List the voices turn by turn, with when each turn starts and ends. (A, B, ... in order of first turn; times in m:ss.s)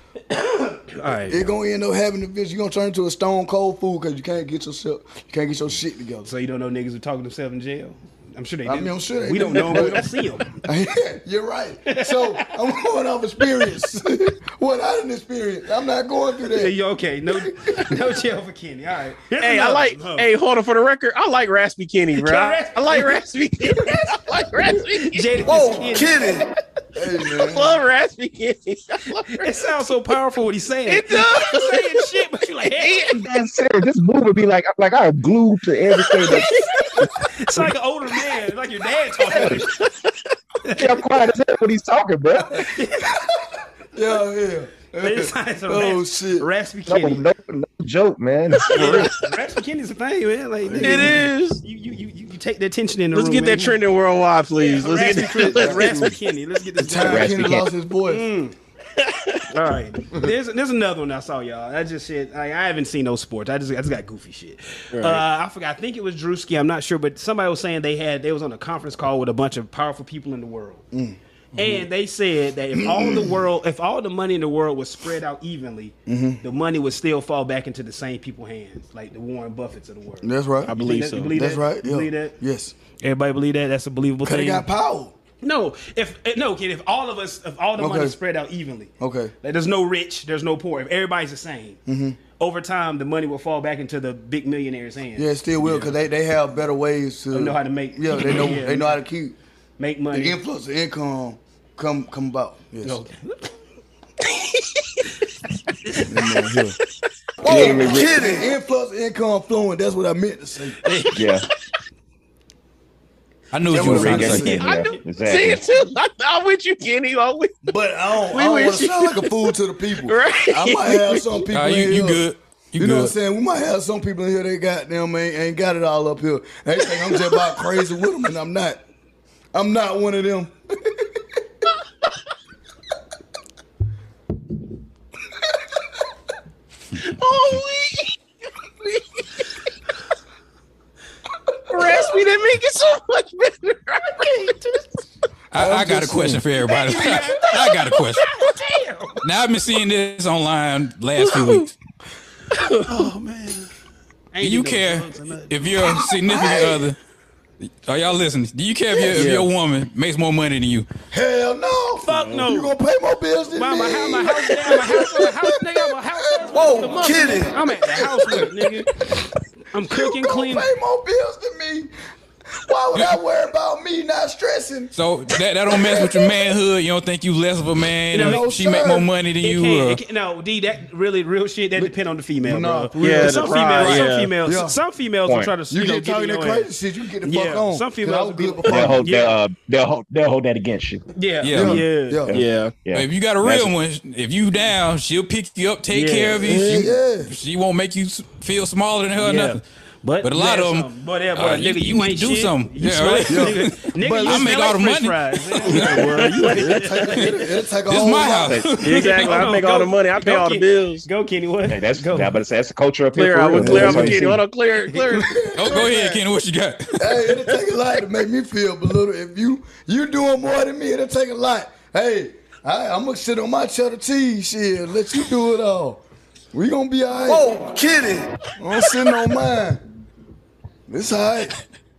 0:00.4-0:01.5 A
0:01.3-0:06.3 B
0:06.2-0:10.6 A
0:08.7-0:16.8 B
0:11.9-0:12.6 A
0:16.5-0:20.3 A
0:17.4-0:18.0 B
0:19.4-0:26.3 C
0:22.1-0:23.2 A
0:24.9-0:26.5 A
0:27.0-0:27.8 B
0:27.4-0:29.6 C
0:29.1-0:33.0 A
0:30.9-0:33.2 C
0:33.1-0:36.6 D
0:36.2-0:39.7 A
0:39.3-0:39.7 D
0:40.7-0:41.1 A
0:40.7-0:42.7 D
0:42.5-0:43.2 A
0:43.9-0:46.5 B
0:45.0-0:47.3 A
0:46.9-0:49.3 D
0:48.6-0:49.1 C
0:48.7-0:53.8 A
0:50.6-0:51.3 B
0:50.8-0:51.6 C
0:53.1-0:56.2 C
0:54.6-0:57.3 A
0:55.4-0:56.0 D
0:55.6-0:56.1 B
0:56.8-0:58.3 B
0:56.9-0:57.7 D
0:58.1-0:58.6 A
0:59.0-0:59.4 C
0:59.5-1:10.8 A
1:04.9-1:05.2 C
1:10.9-1:11.8 B
1:11.6-1:22.4 A
1:12.7-1:13.4 B
1:16.1-1:16.4 B
1:20.2-1:20.8 B
1:20.7-1:21.4 C
1:21.3-1:22.8 B
1:22.9-1:24.7 A
1:24.2-1:25.2 B
1:25.4-1:36.0 A
1:27.8-1:28.2 B
1:29.0-1:29.3 B
1:31.9-1:32.2 B
1:35.2-1:39.4 B
1:37.3-1:39.0 A
1:39.8-1:40.4 A
1:40.1-1:43.0 B
1:42.8-1:43.5 A
1:45.8-1:46.4 A
1:46.0-1:46.8 B
1:47.4-1:50.8 B
1:47.4-1:48.3 C
1:47.5-1:48.0 D
1:50.8-1:51.2 A
1:51.1-1:51.5 D
1:53.5-1:54.6 E
1:53.7-1:54.6 B
1:53.7-1:55.6 D
1:53.9-1:55.0 A
1:54.5-1:57.5 C
1:57.6-2:02.3 B
1:58.3-1:59.4 C
2:00.0-2:01.4 C
2:01.5-2:03.1 E
2:02.8-2:08.8 B
2:09.5-2:11.0 B
2:17.0-2:18.2 C
2:18.8-2:19.4 C
2:21.7-2:24.8 C
2:25.5-2:26.4 B
2:25.5-2:28.3 E
2:26.8-2:29.3 A
2:27.2-2:28.0 C
2:29.2-2:31.7 E
2:31.2-2:31.7 C
2:32.5-2:32.9 C
2:32.9-2:33.7 A
2:34.3-2:35.6 A
2:34.4-2:37.0 E
2:36.3-2:36.9 B
2:37.6-2:40.9 E
2:39.2-2:39.5 C
2:41.1-2:46.6 B
2:42.1-2:42.7 A
2:42.2-2:42.5 C
2:43.6-2:48.9 A
2:46.7-2:47.4 C
2:47.7-2:48.8 B
2:49.7-2:50.7 A
2:49.8-2:51.9 B
2:52.6-2:54.9 B
2:55.0-3:00.0 E
2:55.8-2:56.3 B
2:58.1-2:58.4 A
2:58.2-2:59.1 B
2:59.4-3:09.4 A
3:01.8-3:04.8 B
3:03.0-3:04.3 C
3:05.2-3:05.6 D
3:05.7-3:09.1 B
3:08.7-3:09.0 C
3:08.7-3:11.0 D
3:11.1-3:12.4 A
3:11.4-3:11.8 E
3:11.5-3:12.4 B
3:12.3-3:12.8 C
3:12.8-3:13.7 D
3:12.9-3:19.6 E
3:15.9-3:16.4 C
3:16.4-3:17.4 B
3:19.2-3:27.1 A
3:20.2-3:26.4 E
3:23.3-3:24.5 B
3:25.7-3:27.3 C
3:26.6-3:28.6 B
3:27.9-3:29.4 E
3:28.4-3:28.7 D
3:28.8-3:31.1 C
3:29.2-3:32.4 A
3:31.7-3:34.4 D
3:33.1-3:35.3 C
3:33.6-3:34.4 B
3:34.7-3:35.1 A
3:35.0-3:36.2 B
3:35.6-3:37.2 E
3:37.0-3:47.5 B
3:47.3-3:48.1 C
3:48.6-3:49.8 B
3:50.9-3:51.6 B